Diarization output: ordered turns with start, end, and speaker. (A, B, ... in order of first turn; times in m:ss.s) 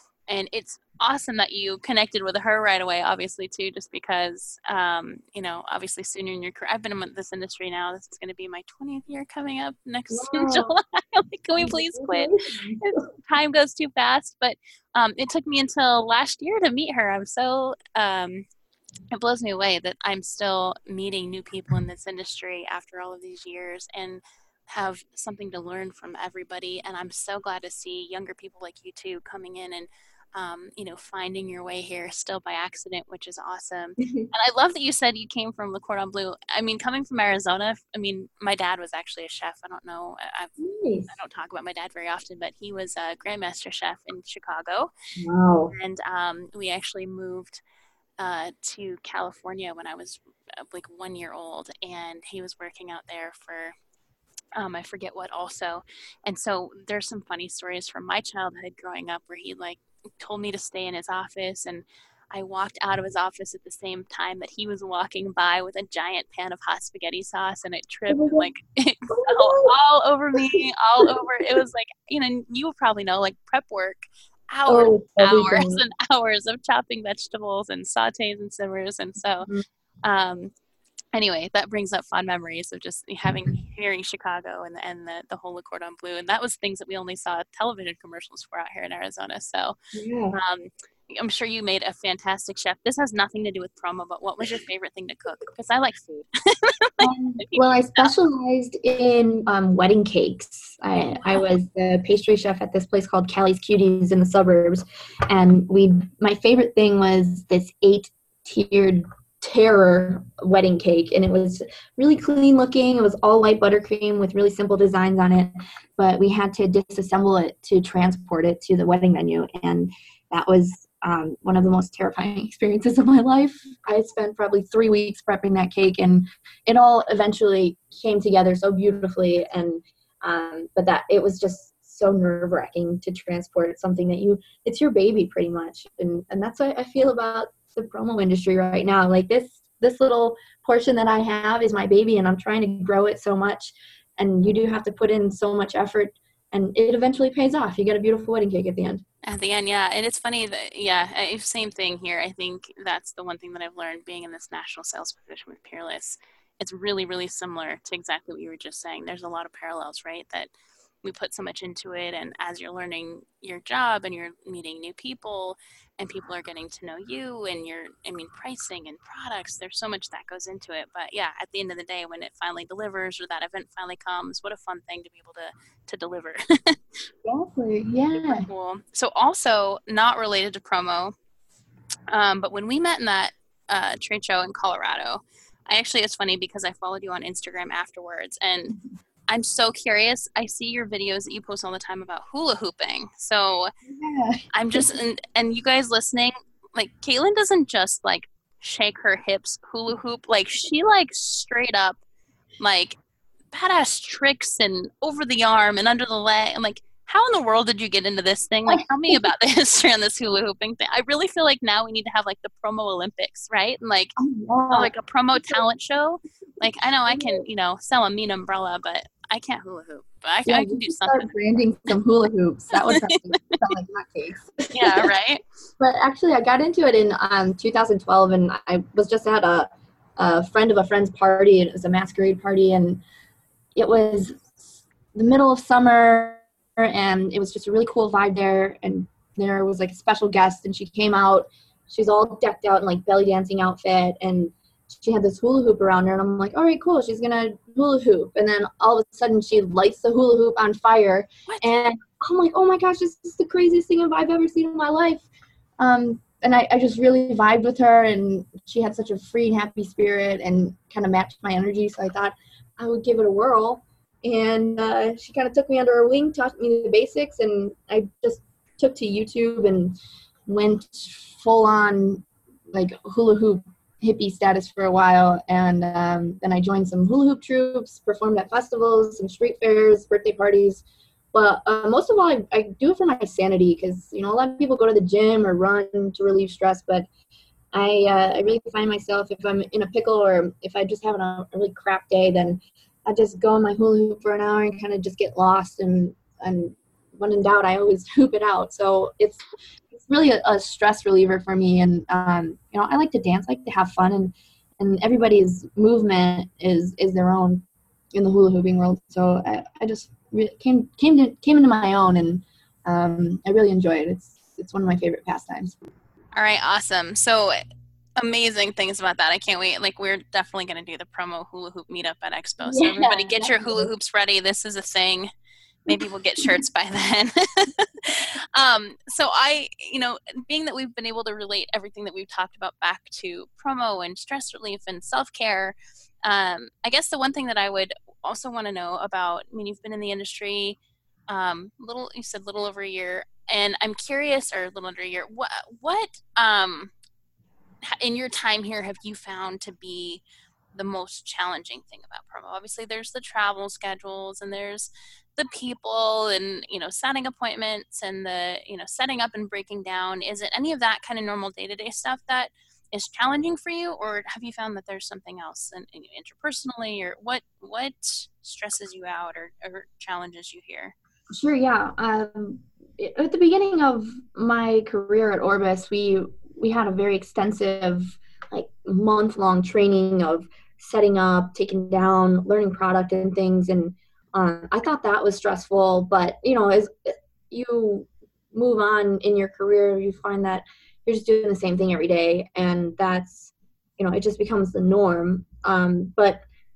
0:00.3-0:18.4 A
0:10.1-0:10.8 B
0:11.6-0:13.0 B
0:19.1-0:40.5 A
0:34.0-0:34.3 B
0:40.6-0:41.1 B
0:41.1-0:44.9 A
0:45.2-0:45.7 B
0:45.7-0:47.6 A
0:48.2-0:53.7 A
0:54.5-1:19.5 A
1:08.1-1:08.5 B
1:09.1-1:09.7 B
1:10.4-1:11.2 B
1:14.7-1:15.8 B
1:20.0-1:20.5 A
1:21.1-1:29.8 A
1:29.9-1:30.4 B
1:30.3-1:38.1 A
1:37.0-2:29.0 B
1:41.2-1:41.4 A
2:29.2-2:40.5 A
2:41.0-2:56.8 A
2:57.2-2:58.5 B
2:58.1-3:01.1 A
3:02.1-3:08.7 A
3:09.3-3:13.7 A
3:13.9-3:14.9 B
3:14.5-3:22.0 A
3:22.6-3:23.0 A
3:23.5-3:34.1 A
3:28.7-3:29.2 B
3:34.2-3:34.9 B
3:34.7-3:41.3 A
3:37.1-3:37.4 B
3:40.4-3:45.1 B
3:43.1-3:43.6 A
3:44.7-3:45.4 A
3:45.8-3:53.0 B
3:53.8-4:15.3 B
4:11.5-4:11.8 A
4:15.8-4:30.0 B
4:30.5-4:40.8 B
4:41.3-4:47.1 B
4:47.7-5:15.8 B
5:16.3-5:17.6 A
5:18.2-5:25.3 A
5:22.6-5:23.9 B
5:25.9-5:40.8 A
5:25.9-5:26.6 B
5:41.3-5:46.9 A
5:47.9-5:50.2 A
5:50.7-6:10.9 A
6:11.3-6:36.4 B